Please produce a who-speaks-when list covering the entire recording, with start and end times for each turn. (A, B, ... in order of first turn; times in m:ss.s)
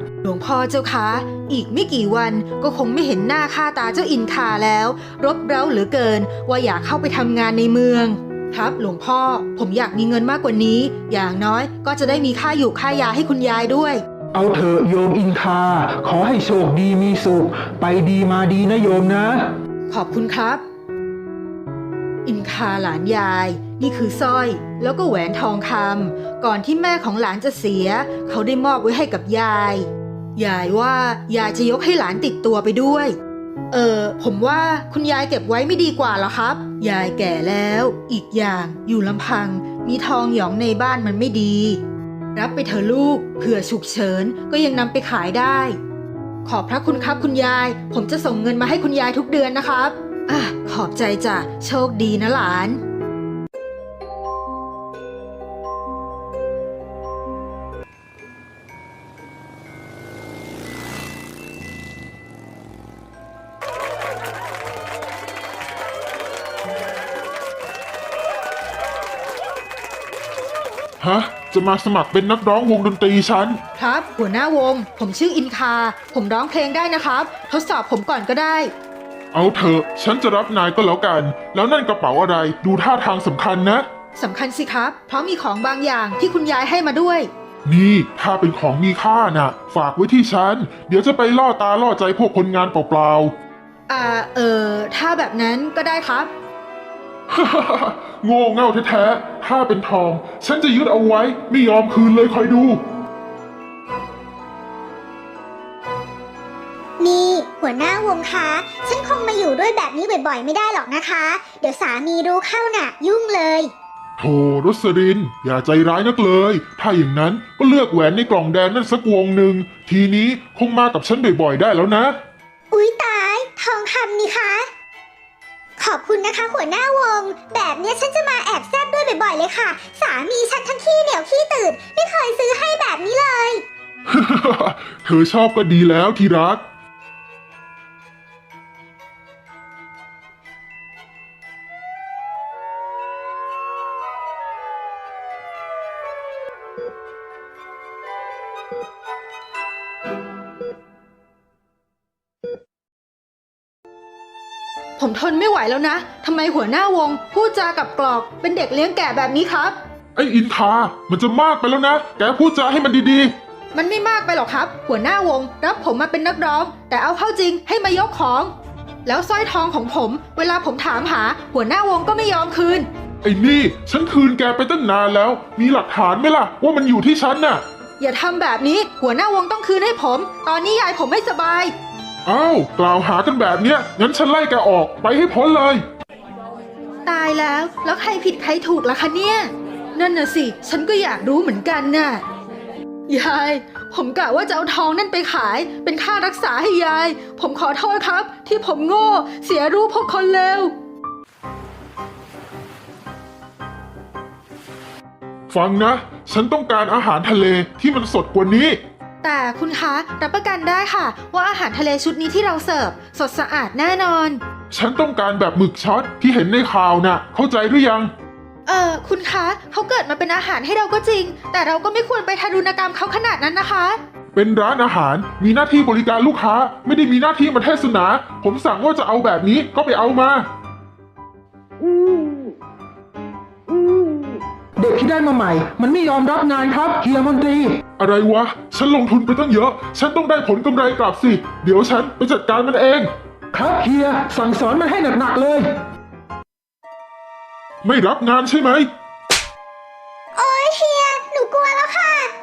0:00.2-0:14.0 A
0:14.3-0:19.5 B
0:19.9-0:20.6 A
0:22.3-0:33.1 A
0:33.7-0:41.8 A
0:42.4-0:45.8 A
0:46.4-0:52.8 A
1:11.0-1:13.6 C
1:13.8-1:18.7 A
1:19.3-1:23.8 C
1:24.2-1:27.3 A
1:27.7-1:33.3 C
1:33.9-1:36.3 A
1:37.3-1:42.8 C
1:47.0-1:53.7 D
1:54.2-2:02.1 C
2:02.7-2:04.7 D
2:05.8-2:13.6 D
2:14.1-2:16.6 C
2:35.0-2:39.8 A
2:40.2-2:43.3 C
2:43.7-2:48.5 A
2:49.1-2:52.9 A
2:53.2-2:57.6 C
2:58.0-3:01.7 A
3:02.3-3:05.8 C
3:07.1-3:12.2 A
3:13.1-3:20.7 A
3:25.5-3:28.8 C
3:29.2-3:34.4 A
3:34.7-3:38.1 C
3:38.7-3:44.0 A
3:44.3-3:50.5 C
3:54.8-3:57.8 B
3:58.0-4:03.1 C
4:03.5-4:05.8 B
4:07.8-4:08.9 C
4:10.4-4:12.3 D